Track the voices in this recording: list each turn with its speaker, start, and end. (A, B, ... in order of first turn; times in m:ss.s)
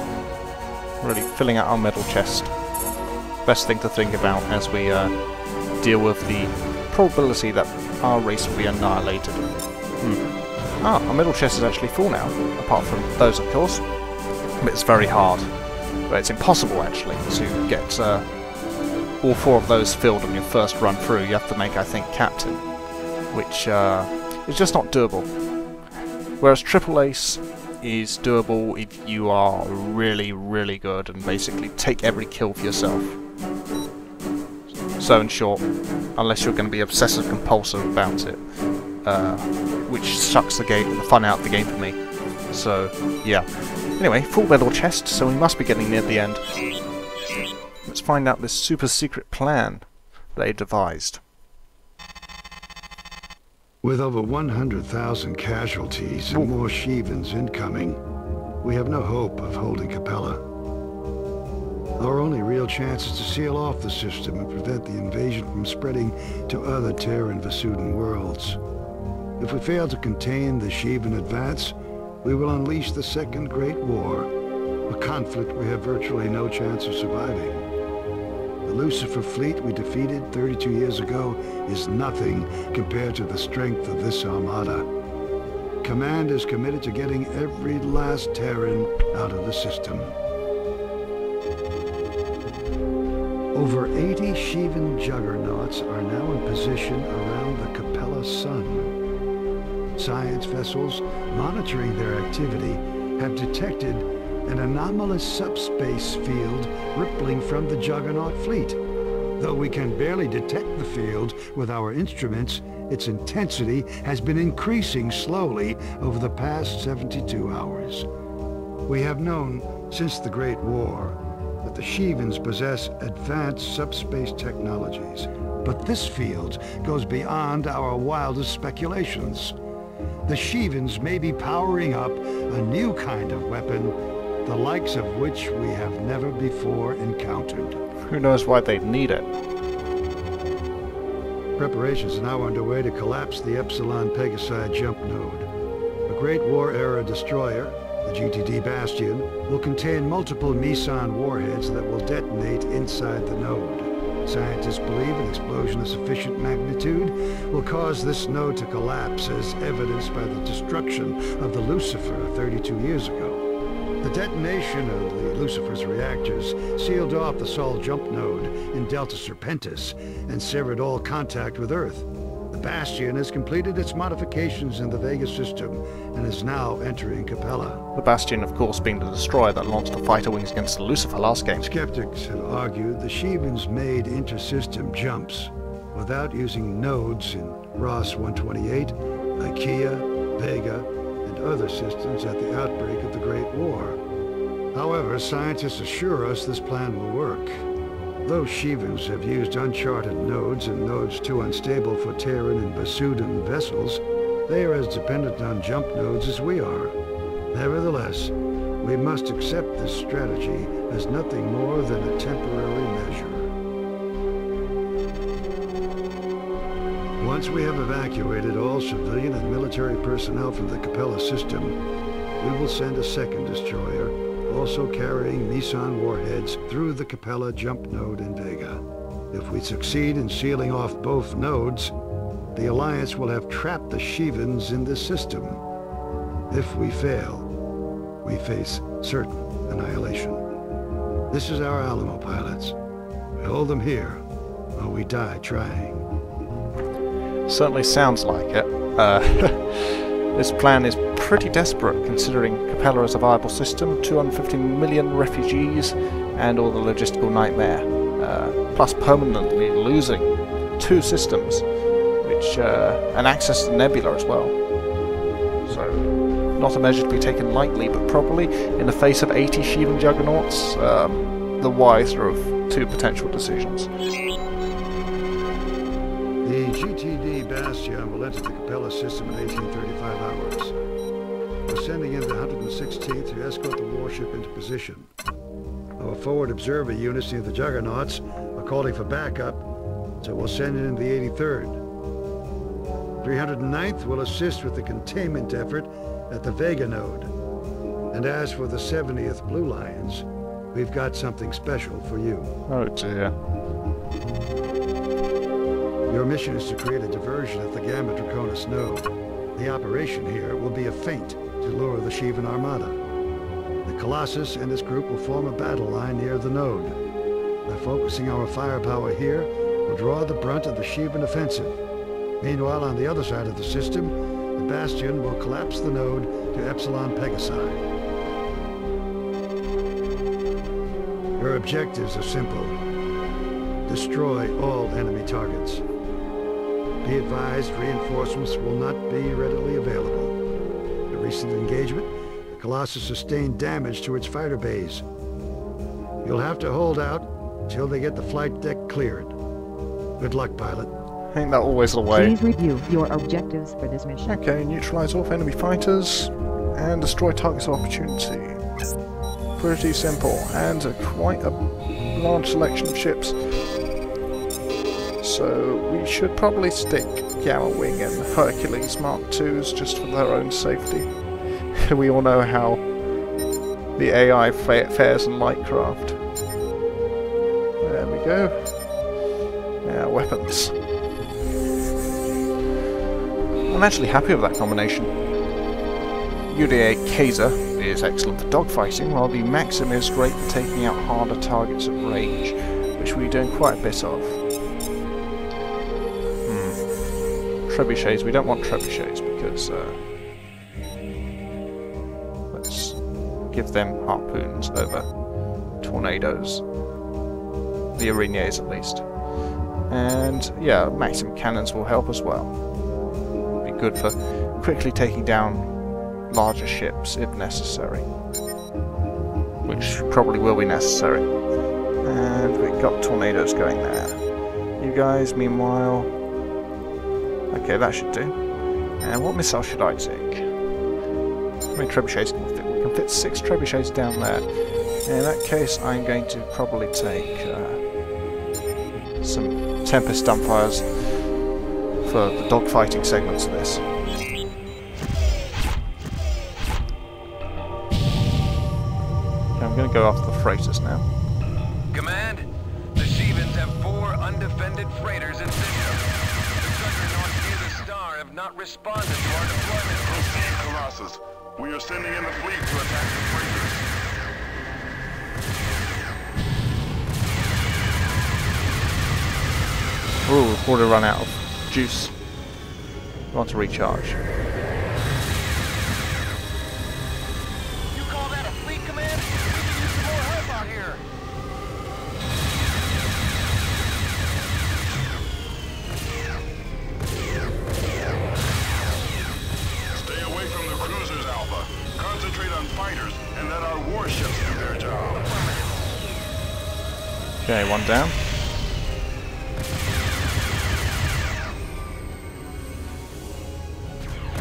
0:01.0-0:02.8 A
0:03.4-0:18.5 A
0:19.2-0:25.4 A
0:26.4-0:33.2 A
0:34.9-0:46.5 A
0:47.8-0:51.2 A
0:53.8-0:58.0 B
0:58.6-1:00.4 B
1:02.0-1:08.6 B
1:09.4-1:14.3 B
1:14.9-1:17.7 B
1:18.6-1:24.9 B
1:25.8-1:30.2 B
1:33.5-1:38.9 B
1:40.0-1:48.8 B
1:49.4-1:58.1 B
1:58.9-2:09.5 B
2:10.3-2:17.8 B
2:18.0-2:19.3 A
2:21.6-2:25.5 B
2:26.1-2:43.4 B
2:44.0-2:57.8 B
2:57.9-3:01.7 A
3:01.5-3:14.0 B
3:14.7-3:17.6 B
3:18.2-3:27.0 B
3:27.5-3:33.5 B
3:37.2-3:41.8 B
3:42.4-3:51.9 B
3:52.5-3:55.6 B
3:56.5-3:57.5 B
3:58.2-4:00.4 B
4:01.3-4:02.8 B
4:03.4-4:04.2 B
4:04.8-4:06.0 B
4:07.5-4:24.6 A
4:25.6-4:33.9 A
4:36.4-4:40.7 B
4:41.7-4:45.1 B
4:46.0-4:49.7 B
4:50.2-4:51.8 B
4:53.2-4:57.3 B
4:58.1-5:02.5 B
5:02.7-5:03.3 A
5:06.1-5:13.0 B
5:13.8-5:17.0 B
5:17.6-5:21.8 B
5:22.4-5:27.9 B
5:31.4-5:32.8 B
5:33.8-5:35.8 B
5:37.0-5:40.4 B
5:41.1-5:45.0 B
5:46.2-5:49.4 B
5:50.2-5:50.9 B
5:51.3-5:52.4 A
5:52.2-5:54.3 C
5:54.2-5:58.6 A
5:59.6-6:03.6 A
6:05.2-6:13.0 A
6:14.0-6:16.2 A
6:17.8-6:19.0 A
6:19.8-6:20.8 A
6:23.7-6:25.1 A
6:26.5-6:34.4 A
6:36.4-6:37.0 A
6:37.6-6:40.0 A
6:42.5-6:45.2 A
6:45.7-6:46.6 A
6:47.9-6:49.1 A
6:49.9-6:52.6 A
6:53.6-6:58.1 A
6:59.6-7:01.3 A
7:02.0-7:04.3 A
7:04.8-7:06.1 A
7:07.5-7:08.4 A
7:09.0-7:10.5 A
7:11.7-7:17.8 A
7:19.2-7:21.4 A
7:22.0-7:23.9 A
7:29.6-7:31.0 A
7:31.9-7:36.0 D
7:36.6-7:40.1 D
7:40.0-7:43.8 E
7:50.2-7:52.1 A
7:53.3-7:54.2 A
7:57.9-8:01.0 D
8:09.9-8:15.4 E
8:15.2-8:16.2 D
8:17.4-8:18.2 A